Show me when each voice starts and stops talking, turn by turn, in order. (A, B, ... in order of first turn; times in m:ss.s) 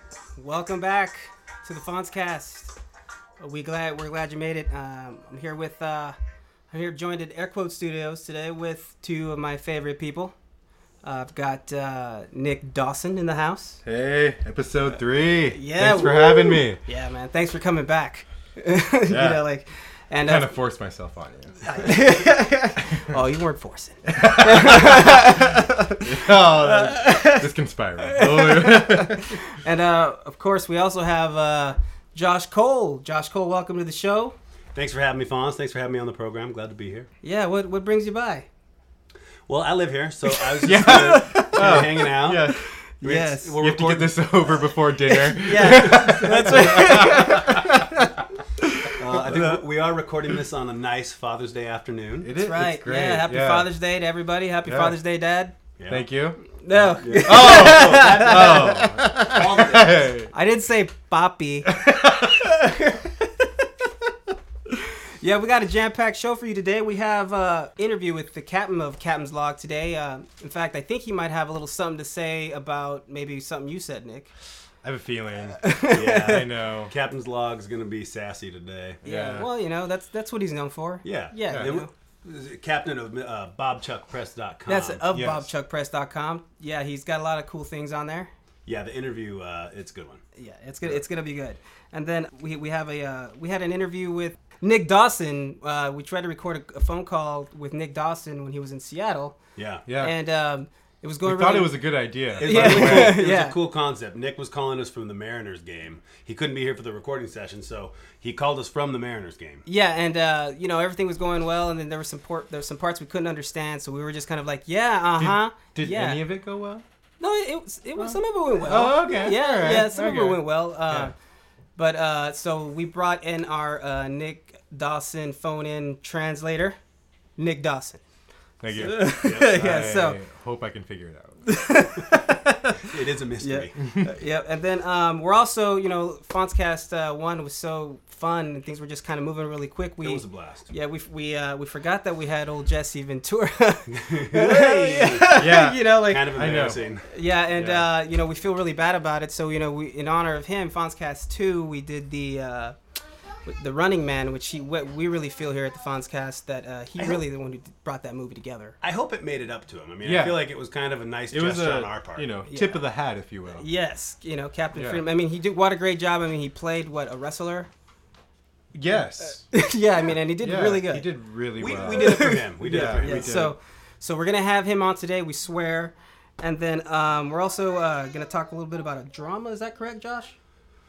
0:00.4-0:02.7 A
0:03.4-0:06.2 A
0:06.7-0:10.3 A
0:11.0-0:13.8 A
0:13.8-0:16.8 B
0:15.5-0:20.5 A
0:19.1-0:19.4 B
0:20.2-0:22.0 B
0:21.6-0:27.5 A
0:24.1-0:29.4 B
0:28.0-0:34.3 A
0:34.8-0:37.1 C
0:37.2-0:38.5 A
0:39.5-0:44.5 C
0:40.6-0:41.8 A
0:40.6-0:42.7 B
0:43.0-0:43.6 A
0:43.6-0:47.7 B
0:45.1-0:48.1 A
0:45.6-0:47.5 C
0:49.0-0:52.3 C
0:52.2-0:53.7 B
0:52.4-0:55.5 A
0:54.7-0:55.0 B
0:55.8-0:56.1 C
0:55.9-0:56.4 B
0:56.6-0:59.4 A
0:56.8-1:00.1 C
0:57.2-1:00.3 B
1:00.3-1:01.7 A
1:01.7-1:02.6 B
1:02.4-1:03.2 A
1:05.2-1:14.3 A
1:14.8-1:16.9 B
1:15.6-1:16.4 A
1:15.9-1:19.0 C
1:19.0-1:21.9 A
1:19.0-1:19.5 B
1:21.0-1:25.1 C
1:21.5-1:21.8 B
1:24.7-1:28.3 A
1:25.1-1:25.5 B
1:28.7-1:30.2 C
1:30.4-1:39.4 A
1:39.6-1:39.8 C
1:39.8-1:40.1 B
1:40.0-1:41.8 A
1:41.2-1:43.2 B
1:42.4-1:49.6 C
1:42.4-1:43.6 A
1:49.7-1:56.2 A
1:55.2-1:56.8 B
1:57.2-2:01.1 A
1:58.0-2:01.1 B
2:01.8-2:06.8 A
2:07.4-2:08.0 A
2:08.6-2:11.4 B
2:08.7-2:09.5 C
2:08.8-2:10.2 A
2:11.5-2:26.5 A
2:12.9-2:13.8 C
2:13.8-2:14.1 B
2:20.0-2:20.7 C
2:23.9-2:25.3 C
2:25.3-2:26.8 B
2:26.1-2:27.1 C
2:27.1-2:32.8 A
2:27.6-2:27.9 B
2:33.5-2:38.8 A
2:38.8-2:42.3 C
2:40.0-2:40.4 B
2:41.3-2:43.6 B
2:42.5-2:42.8 A
2:43.6-2:47.7 A
2:44.8-2:45.0 B
2:48.7-2:49.6 B
2:49.5-2:51.1 A
2:50.4-2:53.6 B
2:51.6-2:53.4 C
2:51.9-2:52.4 A
2:53.0-3:00.4 A